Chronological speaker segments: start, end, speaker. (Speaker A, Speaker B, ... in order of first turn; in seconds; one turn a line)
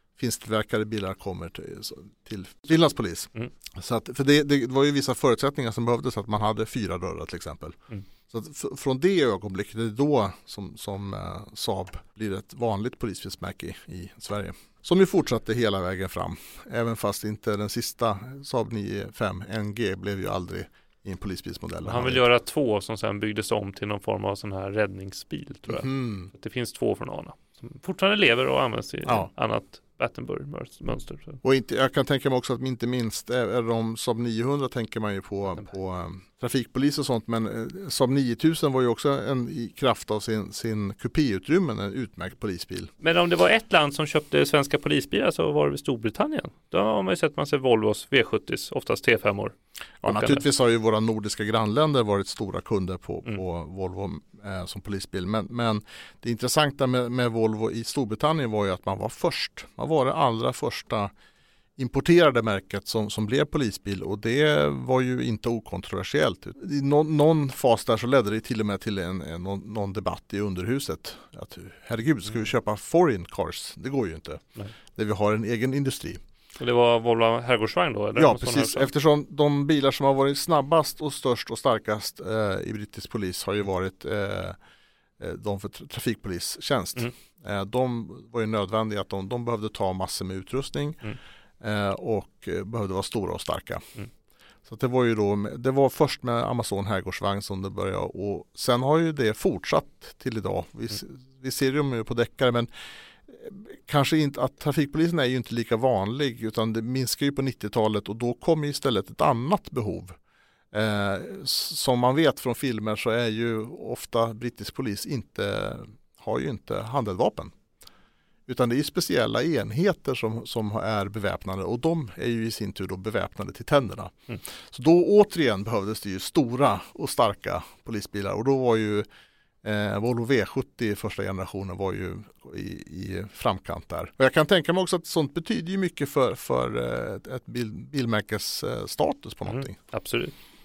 Speaker A: 0.2-22.2
Speaker B: 21.8-31.4
Speaker A: 25.7-26.3
Speaker A: 29.0-29.3
Speaker A: 31.4-42.9
Speaker B: 43.0-50.4
Speaker A: 50.0-61.1
Speaker A: 61.8-74.4
Speaker A: 74.9-76.2
Speaker B: 76.6-78.9
Speaker A: 78.1-84.6
Speaker A: 85.2-91.0
Speaker A: 91.6-93.8
Speaker A: 94.7-102.7
Speaker A: 103.2-110.1
Speaker A: 110.7-117.5
Speaker A: 118.5-129.1
Speaker A: 129.6-139.7
Speaker B: 139.4-140.3